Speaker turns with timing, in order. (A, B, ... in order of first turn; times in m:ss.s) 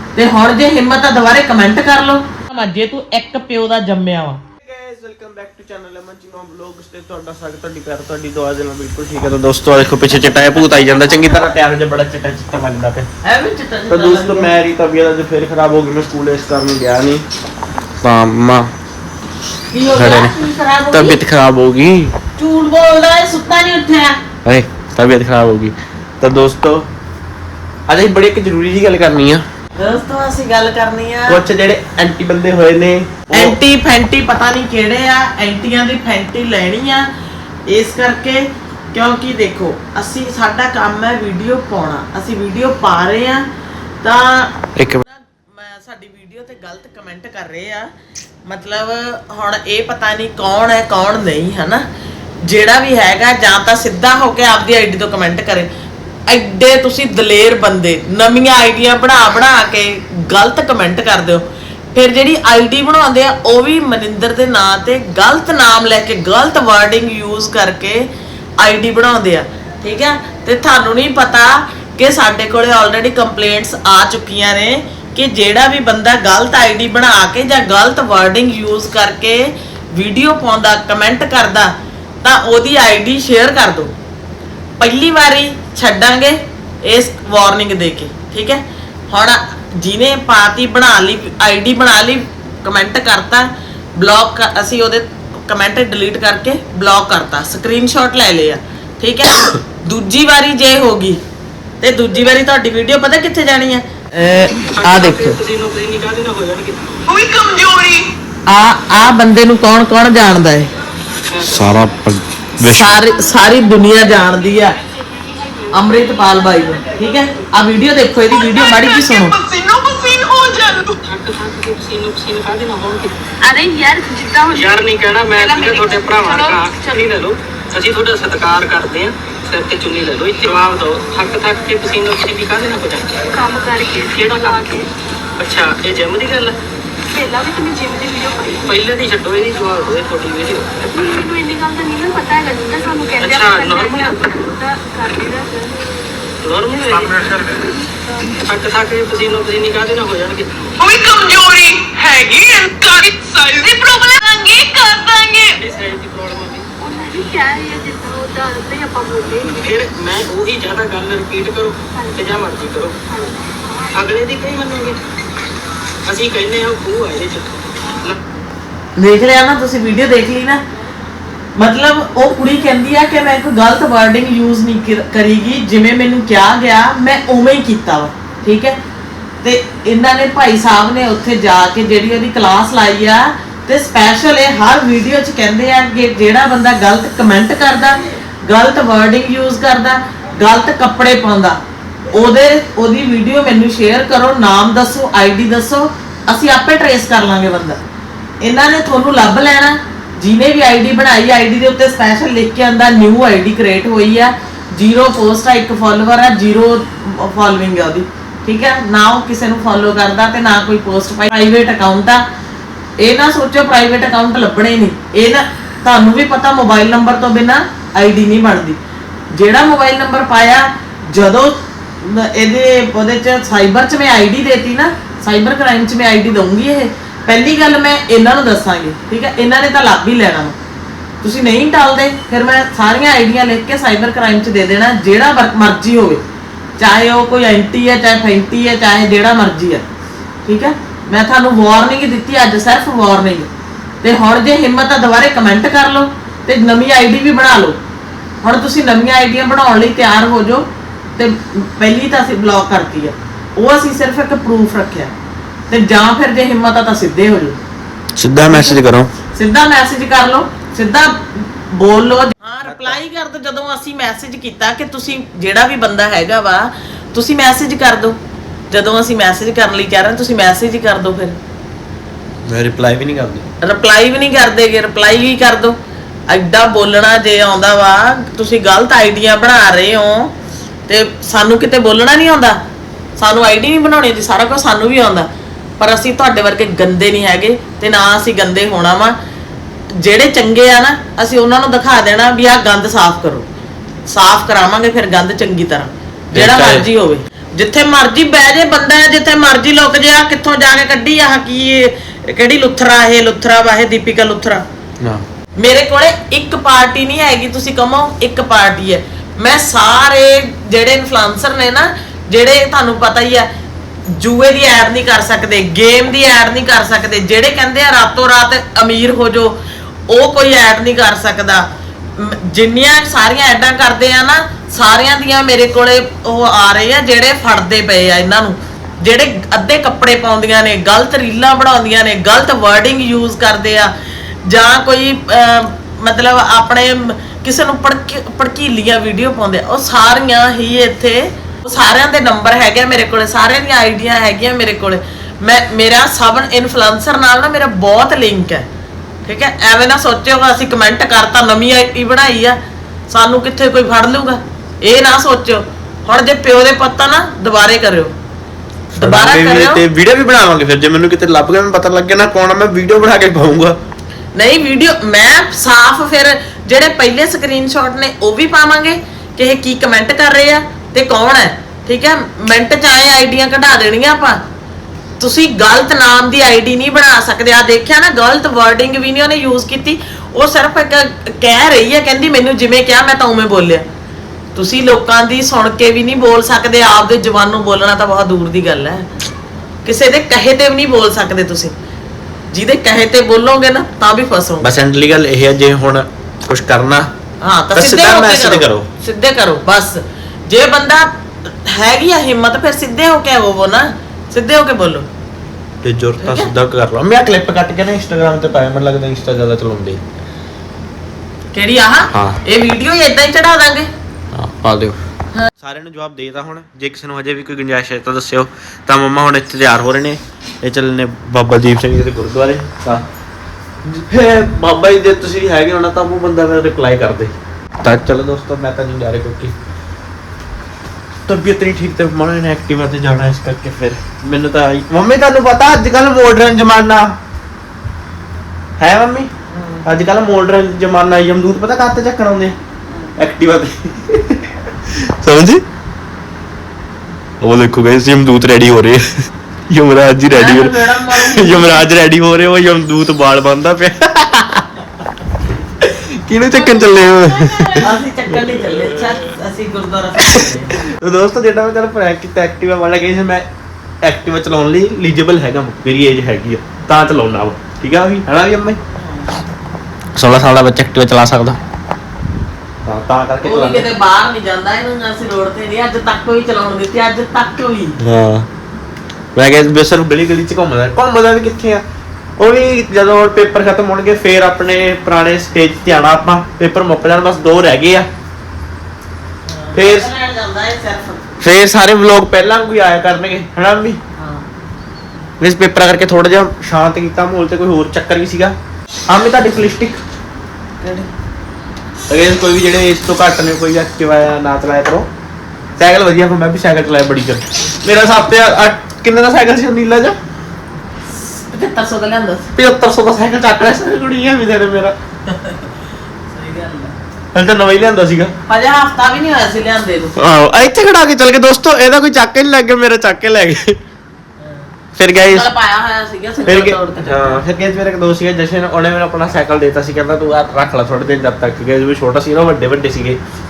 0:00.2-0:04.4 A
0:04.6-0:13.1 B
0:10.4-0:11.0 A
0:13.2-0:14.5 A
0:13.9-0:17.2 B
0:18.0-0:18.7 B
0:19.7-0:21.2 A
0:19.9-0:20.4 B
0:20.9-0:22.1 B
0:22.4-0:24.2 A
0:24.4-0:26.9 B
0:27.9-0:29.4 B
0:29.8-0:31.4 A
0:31.3-0:33.6 B
0:33.3-0:37.1 A
0:37.7-0:43.5 A
0:44.0-0:47.9 A
0:44.8-0:45.0 B
0:48.5-0:51.8 A
0:52.4-0:55.7 A
0:56.3-1:08.1 A
1:08.6-1:23.9 A
1:24.8-1:41.2 A
1:41.8-1:45.4 A
1:44.6-1:47.0 C
1:47.1-1:48.1 D
1:48.5-1:50.7 A
1:51.3-1:51.6 C
1:51.4-1:53.1 B
1:52.6-1:54.8 A
1:55.7-1:59.4 A
1:58.4-2:01.0 D
2:01.1-2:03.2 C
2:03.5-2:04.7 E
2:04.5-2:13.2 C
2:05.4-2:05.8 E
2:13.3-2:14.6 E
2:14.0-2:14.9 C
2:15.4-2:16.6 C
2:17.2-2:18.6 E
2:18.6-2:20.8 C
2:21.0-2:24.1 E
2:23.2-2:24.5 C
2:24.8-2:25.2 E
2:26.4-2:27.7 C
2:28.4-2:30.7 C
2:30.8-2:35.6 D
2:35.6-2:36.7 C
2:36.9-2:38.1 E
2:39.2-2:43.0 C
2:43.9-2:45.0 C
2:46.0-2:48.2 C
2:49.0-2:50.6 A
2:51.6-2:58.8 A
2:59.4-3:11.6 A
3:12.1-3:17.8 A
3:18.4-3:32.2 A
3:33.0-3:38.8 A
3:39.3-3:50.6 A
3:51.2-3:56.2 A
3:56.8-3:59.8 A
4:00.5-4:03.5 A
4:04.0-4:07.8 A
4:08.4-4:15.1 A
4:15.7-4:17.6 A
4:18.2-4:19.1 B
4:18.5-4:18.8 A
4:19.3-4:28.2 A
4:22.6-4:23.0 B
4:28.7-4:31.4 A
4:32.4-4:33.4 B
4:33.6-4:35.8 A
4:36.3-4:40.3 A
4:40.9-4:42.6 A
4:43.2-4:45.3 A
4:45.8-4:49.2 A
4:49.9-4:53.5 A
4:54.1-5:04.6 A
4:56.3-4:56.9 B
5:05.0-5:05.2 B
5:05.6-5:13.5 A
5:14.1-5:19.6 A
5:20.1-5:21.7 A
5:22.2-5:33.9 A
5:34.4-5:48.7 A
5:49.2-5:52.6 A
5:53.1-5:58.1 A
5:58.9-5:59.8 A
5:59.0-6:03.8 B
6:04.4-6:14.4 A
6:15.2-6:23.9 A
6:24.5-6:29.1 A
6:29.8-6:31.7 A
6:32.5-6:34.7 A
6:34.6-6:37.1 B
6:37.4-6:45.1 A
6:37.7-6:38.9 B
6:45.8-6:50.0 B
6:46.2-6:46.5 A
6:51.5-6:53.9 A
6:52.1-6:52.4 B
6:54.3-6:55.0 B
6:55.6-7:03.0 B
7:03.9-7:09.5 B
7:11.3-7:17.1 B
7:18.8-7:19.3 B
7:19.5-7:19.9 A
7:19.8-7:22.6 B
7:23.2-7:25.6 B
7:27.4-7:29.0 B
7:29.7-7:34.7 B
7:30.3-7:31.9 A
7:35.8-7:39.1 B
7:37.1-7:37.7 E
7:37.8-7:40.8 A
7:40.4-7:43.5 B
7:44.0-7:48.8 B
7:49.0-7:49.4 A
7:50.1-7:51.6 B
7:52.8-7:53.9 B
7:53.4-7:58.0 A
7:58.0-7:58.5 B
7:59.4-8:01.8 B
8:02.4-8:08.1 B
8:09.4-8:11.3 A
8:09.7-8:10.1 B
8:11.4-8:14.0 B
8:14.2-8:14.5 A
8:15.4-8:18.6 B
8:19.1-8:20.0 B
8:20.8-8:21.1 A
8:22.1-8:25.1 B
8:25.8-8:30.2 B
8:31.1-8:32.5 A
8:32.6-8:34.9 B
8:35.2-8:35.7 A
8:36.3-8:36.9 A
8:37.3-8:38.3 B
8:38.5-8:40.2 A
8:40.2-8:43.8 B
8:44.4-8:44.7 A
8:45.0-8:45.5 B
8:45.3-8:47.4 A
8:46.4-8:53.2 B